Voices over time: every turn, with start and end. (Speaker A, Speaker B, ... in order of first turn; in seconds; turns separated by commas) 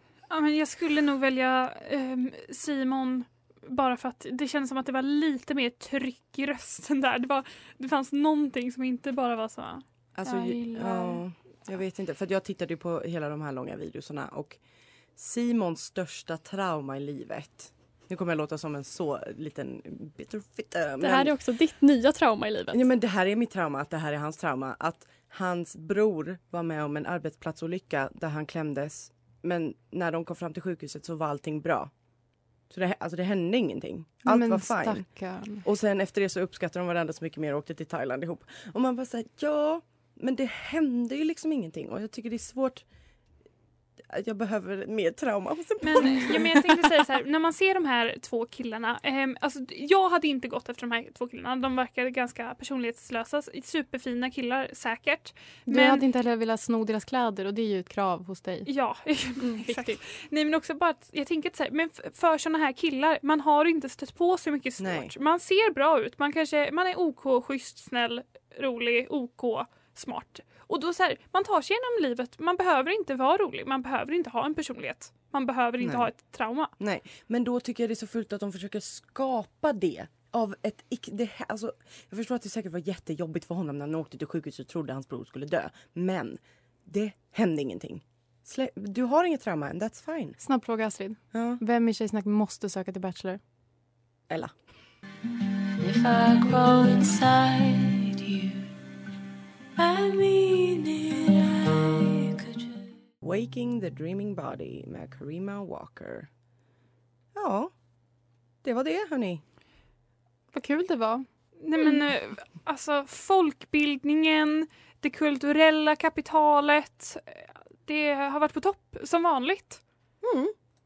Speaker A: 0.3-11.2, Speaker B: 10.2-14.6, Speaker B: 15.2-21.4, Speaker C: 21.0-22.8, Speaker B: 22.7-31.9, Speaker B: 32.7-42.9, Speaker D: 34.2-35.6, Speaker B: 44.1-46.9, Speaker A: 45.8-56.0, Speaker D: 55.7-58.7, Speaker A: 58.7-76.7, Speaker C: 59.4-60.0, Speaker B: 64.8-65.1, Speaker B: 75.8-76.1, Speaker B: 76.8-90.4, Speaker D: 90.4-93.4, Speaker B: 91.3-91.6, Speaker E: 95.8-98.7, Speaker E: 99.8-102.8, Speaker B: 103.2-106.3, Speaker B: 107.3-107.7, Speaker B: 108.6-109.4, Speaker D: 110.5-111.3, Speaker A: 111.6-119.8, Speaker B: 120.2-120.5